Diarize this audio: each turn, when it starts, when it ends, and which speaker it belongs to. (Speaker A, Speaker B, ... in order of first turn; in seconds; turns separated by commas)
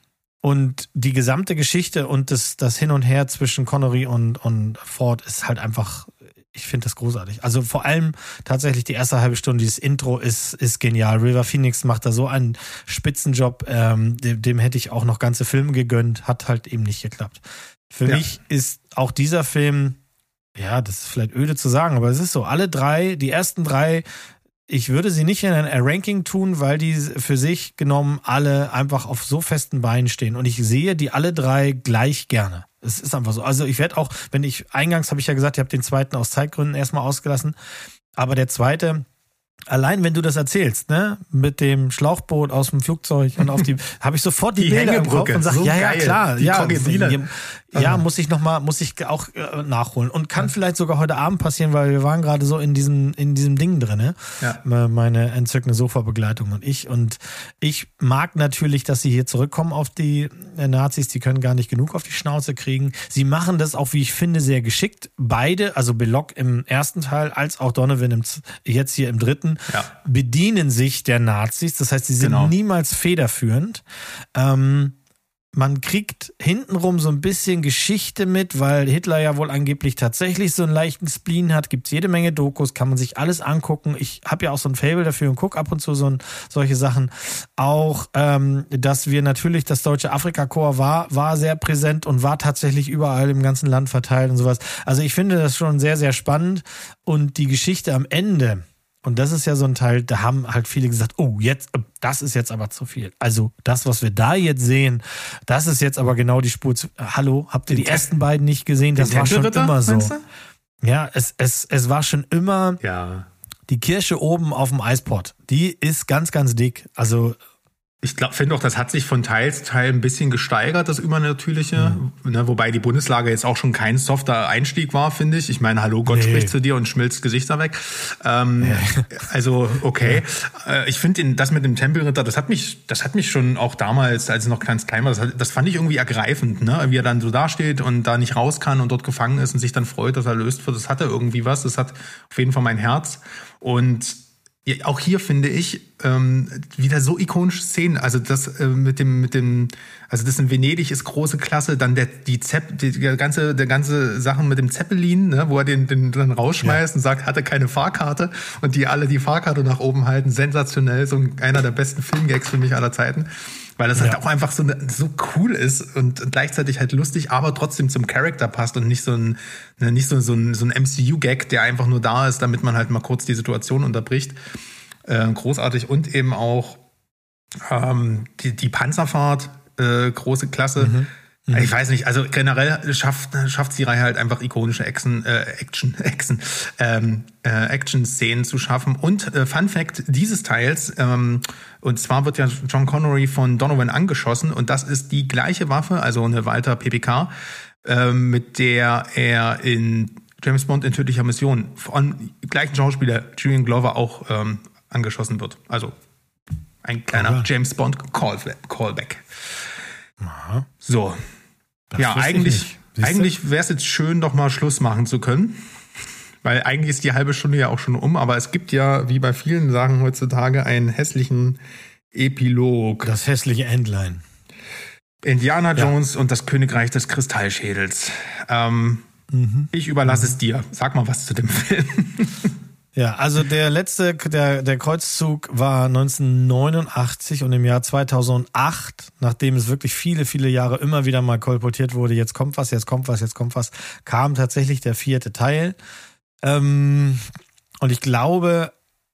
Speaker A: 0.4-20.0, Speaker A: 20.6-24.1, Speaker A: 24.7-37.6, Speaker A: 38.2-39.1, Speaker A: 39.7-73.8, Speaker B: 44.6-48.0, Speaker B: 72.2-72.5, Speaker A: 74.3-75.0, Speaker A: 75.5-110.1, Speaker B: 107.7-108.0, Speaker B: 109.0-110.2, Speaker A: 110.8-112.8, Speaker B: 112.8-113.3, Speaker A: 113.7-117.4, Speaker B: 118.0-174.4, Speaker A: 126.1-126.5, Speaker A: 128.6-129.1, Speaker B: 175.1-176.8, Speaker B: 177.6-197.3, Speaker A: 180.8-181.7, Speaker B: 197.8-205.9, Speaker B: 206.8-209.3, Speaker A: 207.1-207.5, Speaker A: 210.2-210.7, Speaker B: 210.8-211.2, Speaker A: 211.9-213.3, Speaker B: 212.0-215.6, Speaker B: 216.4-221.6, Speaker B: 222.1-223.1, Speaker A: 223.0-224.2, Speaker B: 225.2-229.1, Speaker A: 229.3-230.3, Speaker B: 229.7-232.5, Speaker A: 232.9-245.8, Speaker A: 246.4-247.2, Speaker A: 247.8-248.7